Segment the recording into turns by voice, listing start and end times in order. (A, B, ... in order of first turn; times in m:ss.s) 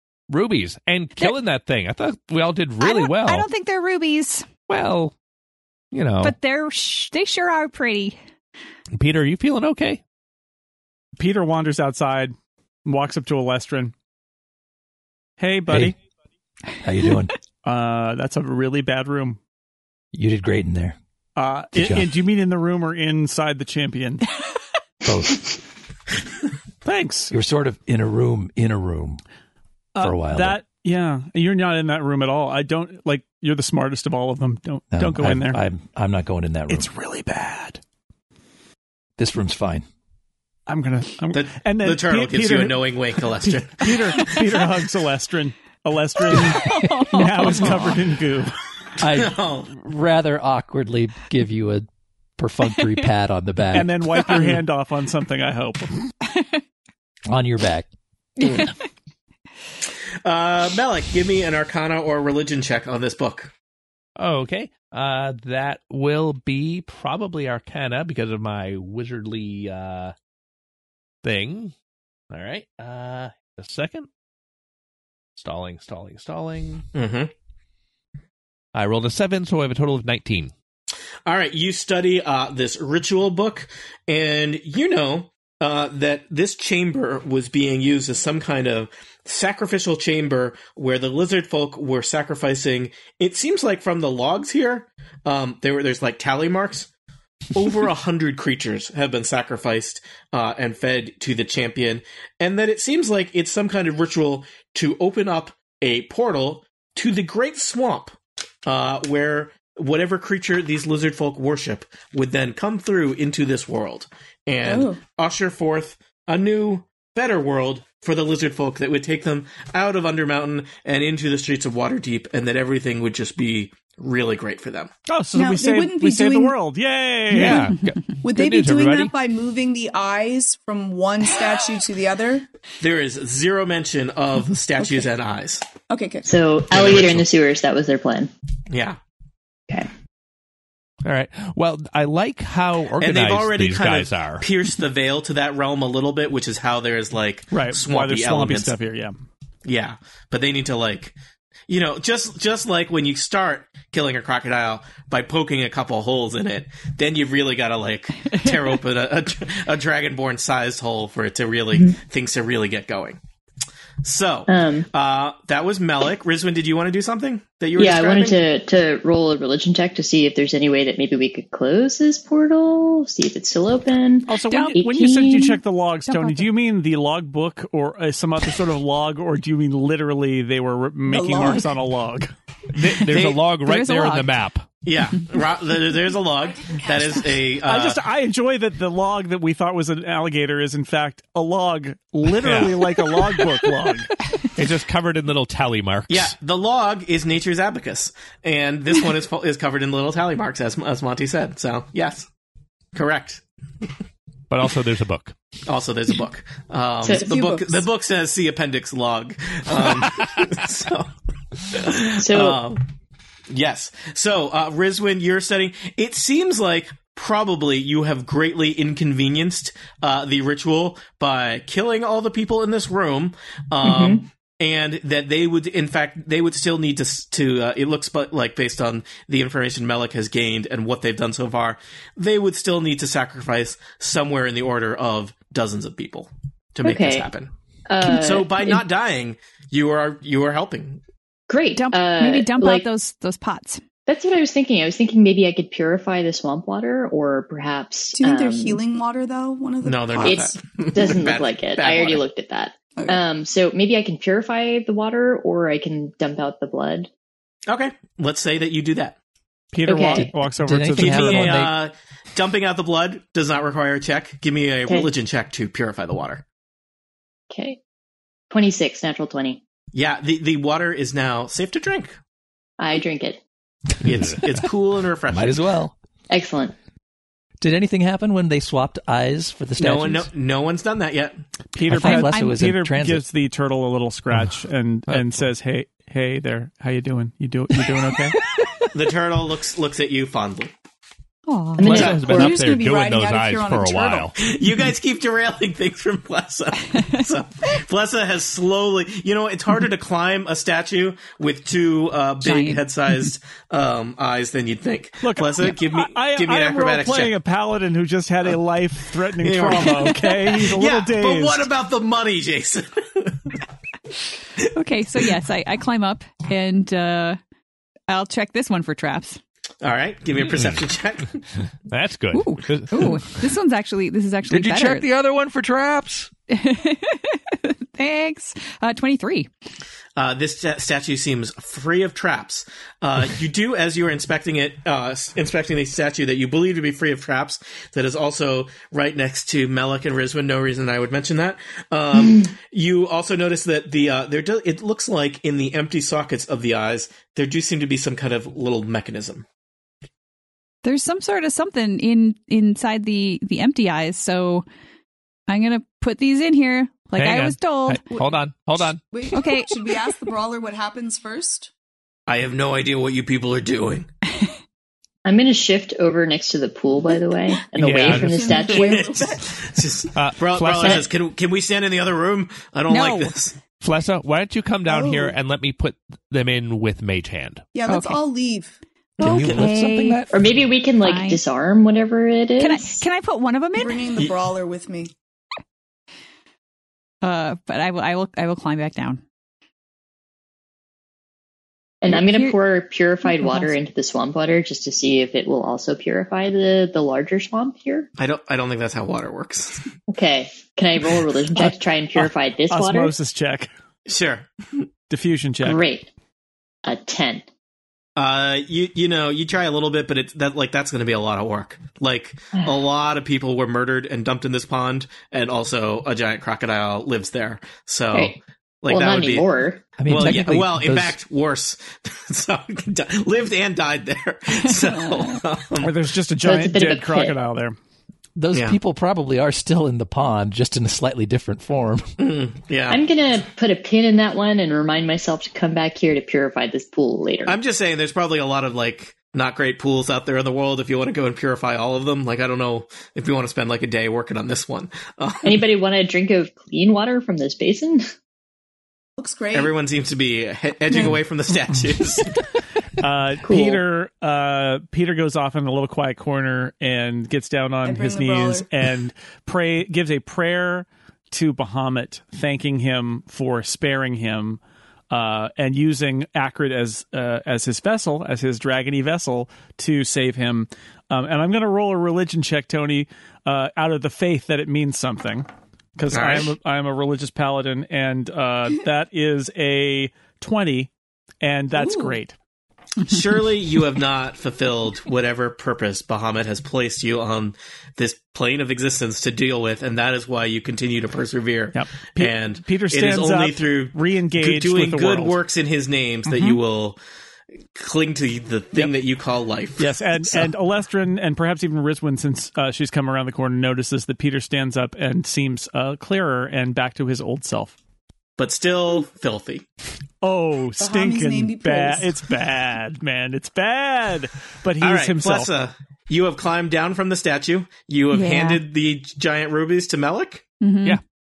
0:00.3-0:03.5 A
0:02.8-0:04.5 B
0:04.7-0:05.1 A
0:05.9-0:06.3 A
0:06.2-0:08.2 B
0:09.0-0:10.0 A
0:11.2-0:12.3 C
0:12.8-0:13.9 C
0:15.4-0:16.0 C
0:15.7-0:15.9 D
0:16.8-0:17.3 D
0:17.6-0:19.4 C
0:20.1-0:21.0 D
0:21.4-0:24.2 C
0:21.7-0:22.1 D
0:25.0-0:25.5 D
0:26.8-0:27.3 C
0:27.3-0:29.2 D
0:29.9-0:35.6 C
0:30.0-0:30.6 D
0:34.9-0:36.9 D
0:36.7-0:37.8 C
0:39.2-0:39.8 D
0:40.7-0:48.6 C
0:41.3-0:44.6 E
0:46.3-0:47.8 B
0:49.0-0:54.1 D
0:49.1-0:49.7 E
0:53.7-0:55.9 C
0:57.3-0:57.9 D
0:58.4-0:58.7 E
1:00.2-1:03.5 E
1:04.2-1:10.1 A
1:11.2-1:11.7 A
1:12.3-1:14.1 A
1:15.4-1:16.9 A
1:16.9-1:17.3 E
1:18.7-1:20.5 A
1:21.2-1:36.9 E
1:37.5-2:04.9 E
1:54.6-1:55.0 F
2:05.1-2:07.7 C
2:05.3-2:06.6 F
2:07.3-2:09.1 A
2:08.2-2:12.4 F
2:12.8-2:15.6 E
2:14.8-2:15.1 F
2:15.9-2:16.2 F
2:16.2-2:18.3 G
2:16.7-2:17.2 E
2:18.7-2:19.0 E
2:21.0-2:24.4 A
2:23.0-2:28.7 E
2:27.5-2:29.1 C
2:29.6-2:31.1 E
2:31.7-2:43.2 E
2:44.0-2:48.4 E
2:44.5-2:44.9 G
2:47.8-2:55.6 G
2:54.3-3:02.3 C
2:54.4-2:54.8 B
2:56.1-2:56.5 B
3:01.1-3:01.7 F
3:02.7-3:04.7 A
3:03.5-3:04.3 B
3:04.8-3:08.0 E
3:07.6-3:14.1 C
3:12.3-3:13.0 A
3:14.5-3:16.3 A
3:16.1-3:22.3 E
3:22.9-3:23.4 E
3:24.5-3:25.4 A
3:25.6-3:32.8 E
3:27.0-3:27.3 G
3:27.0-3:27.8 F
3:32.2-3:32.6 G
3:33.5-3:57.5 E
3:43.8-3:44.2 G
3:56.8-3:57.3 G
3:57.9-3:58.8 G
3:58.0-4:01.0 E
4:01.5-4:02.8 G
4:01.7-4:03.8 B
4:04.0-4:08.8 G
4:08.2-4:11.1 F
4:09.8-4:12.2 E
4:10.2-4:17.1 G
4:17.7-4:19.2 E
4:19.7-4:21.7 C
4:19.8-4:20.3 G
4:20.1-4:21.8 D
4:20.9-4:26.4 E
4:24.8-4:25.1 G
4:27.5-4:27.8 G
4:28.5-4:29.6 G
4:29.9-4:32.2 E
4:32.8-4:33.4 G
4:34.0-4:35.6 E
4:35.3-4:35.9 D
4:36.3-4:36.7 G
4:37.6-4:40.3 D
4:39.8-4:41.4 E
4:41.7-4:48.4 C
4:41.8-4:43.2 D
4:42.0-4:42.5 B
4:48.4-4:48.9 B
4:48.9-4:50.7 E
4:51.5-4:52.0 B
4:51.8-4:52.6 G
4:51.8-4:54.3 A
4:51.9-4:52.2 E
4:52.0-4:54.3 F
4:54.4-5:07.3 E
5:02.4-5:03.2 B
5:05.2-5:11.7 C
5:09.4-5:13.4 E
5:14.7-5:17.4 B
5:18.1-5:19.4 B
5:19.8-5:21.4 E
5:20.5-5:20.8 A
5:21.9-5:23.2 A
5:22.3-5:25.1 B
5:24.5-5:26.3 D
5:26.5-5:29.5 B
5:30.2-5:49.4 E
5:42.1-5:42.5 G
5:50.8-5:54.6 B
5:55.5-5:58.0 B
5:57.2-5:59.0 A
5:59.1-6:01.7 F
5:59.3-5:59.8 B
6:02.3-6:04.1 E
6:05.2-6:09.1 G
6:07.8-6:08.7 A
6:08.0-6:09.6 F
6:08.7-6:13.6 E
6:10.1-6:11.1 A
6:12.9-6:13.3 B
6:13.8-6:17.6 A
6:14.8-6:15.3 F
6:17.7-6:18.8 F
6:17.9-6:18.2 B
6:19.2-6:19.7 E
6:19.2-6:20.3 D
6:19.3-6:20.2 B
6:20.3-6:23.0 G
6:21.0-6:21.4 B
6:22.6-6:24.1 B
6:23.8-6:25.1 F
6:27.2-6:29.2 B
6:32.0-6:38.1 G
6:32.1-6:32.6 B
6:33.2-6:33.7 B
6:38.2-6:39.9 E
6:40.1-6:43.1 G
6:42.2-6:43.7 C
6:44.1-6:44.9 E
6:45.1-6:45.8 C
6:45.6-6:46.1 G
6:46.8-6:47.4 G
6:48.2-6:59.5 E
6:58.1-6:59.9 G
7:00.0-7:01.2 D
7:00.0-7:06.0 E
7:05.8-7:07.8 C
7:06.4-7:07.4 G
7:08.4-7:12.1 D
7:08.5-7:08.8 E
7:12.2-7:13.0 E
7:12.9-7:17.6 G
7:17.4-7:25.6 E
7:25.4-7:28.1 G
7:29.2-7:29.7 F
7:29.5-7:32.4 E
7:33.0-8:00.9 C
7:33.4-7:33.8 G
7:37.8-7:38.7 F
7:56.1-7:56.5 E
8:01.4-8:02.3 C
8:03.0-8:17.0 E
8:11.7-8:15.4 C
8:16.3-8:16.6 C
8:17.7-8:20.5 E
8:19.8-8:27.7 C
8:28.4-8:29.6 E
8:30.2-8:35.5 C
8:30.8-8:32.2 F
8:34.8-8:40.4 E
8:38.1-8:38.6 B
8:40.6-8:41.0 B